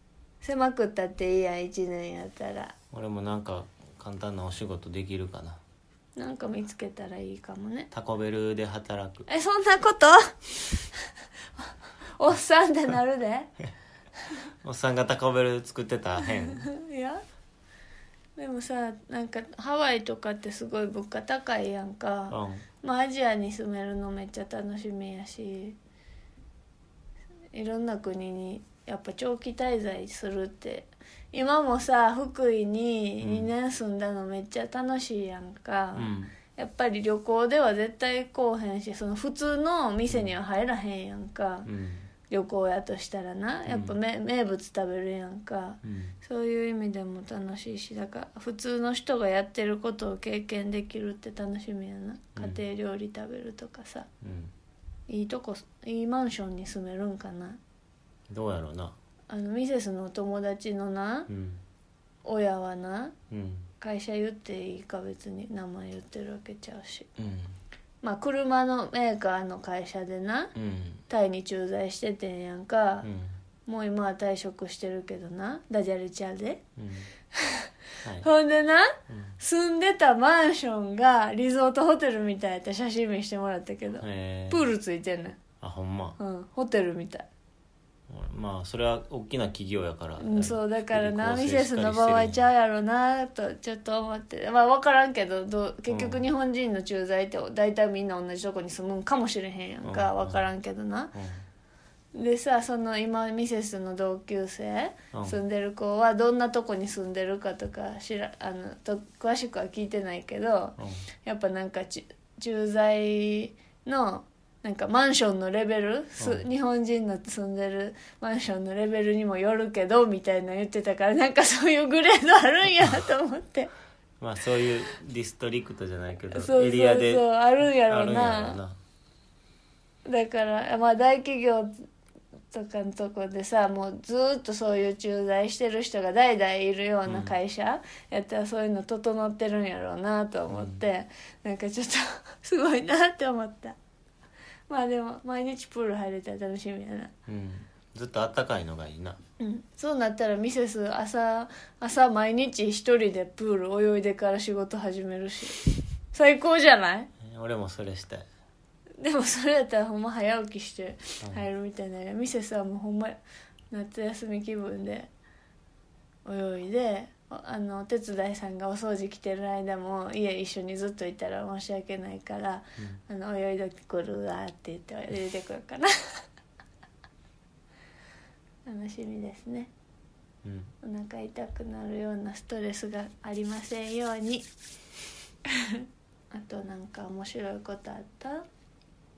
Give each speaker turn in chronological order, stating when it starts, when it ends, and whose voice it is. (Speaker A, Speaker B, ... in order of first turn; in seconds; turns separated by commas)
Speaker A: 0.4-2.7, Speaker B: 2.9-5.6, Speaker A: 6.2-7.9, Speaker B: 7.9-9.3, Speaker A: 9.3-11.1, Speaker A: 11.6-13.5, Speaker B: 14.6-16.7, Speaker A: 16.2-17.2, Speaker A: 18.4-25.8, Speaker B: 22.3-22.6, Speaker A: 27.5-41.7, Speaker B: 33.2-33.5, Speaker B: 35.9-36.3, Speaker B: 40.1-40.3, Speaker B: 41.6-42.1, Speaker A: 42.3-54.1, Speaker B: 43.7-44.0, Speaker B: 45.8-46.2, Speaker B: 52.4-52.6, Speaker B: 54.2-54.5, Speaker A: 55.1-57.6, Speaker B: 58.3-58.9, Speaker A: 59.3-61.3, Speaker B: 61.3-61.6, Speaker A: 62.2-63.1, Speaker B: 63.3-63.7, Speaker A: 63.8-67.1, Speaker B: 67.2-67.5, Speaker A: 68.0-70.5, Speaker B: 70.5-71.0, Speaker A: 71.1-73.1, Speaker B: 73.0-73.3, Speaker A: 73.7-76.6, Speaker B: 76.8-77.1, Speaker A: 77.3-77.7, Speaker A: 78.2-85.4, Speaker B: 79.1-79.4, Speaker B: 84.0-84.7, Speaker B: 85.6-86.2, Speaker A: 86.2-87.2, Speaker B: 88.1-92.4, Speaker A: 90.2-101.1, Speaker B: 95.9-96.3, Speaker B: 99.8-100.4, Speaker B: 101.1-101.4, Speaker A: 102.1-123.7, Speaker B: 105.1-105.4, Speaker B: 116.2-116.5, Speaker B: 124.2-128.8, Speaker A: 126.3-128.6, Speaker A: 130.1-131.7, Speaker A: 132.5-143.8, Speaker B: 137.1-137.3, Speaker B: 140.5-140.8, Speaker A: 144.7-147.1, Speaker B: 147.2-149.2, Speaker A: 149.4-157.1, Speaker B: 157.2-158.3, Speaker A: 159.0-163.2, Speaker A: 163.7-165.1, Speaker A: 166.2-176.2, Speaker A: 178.6-179.7, Speaker B: 180.4-180.7, Speaker A: 180.8-184.5, Speaker A: 185.6-188.4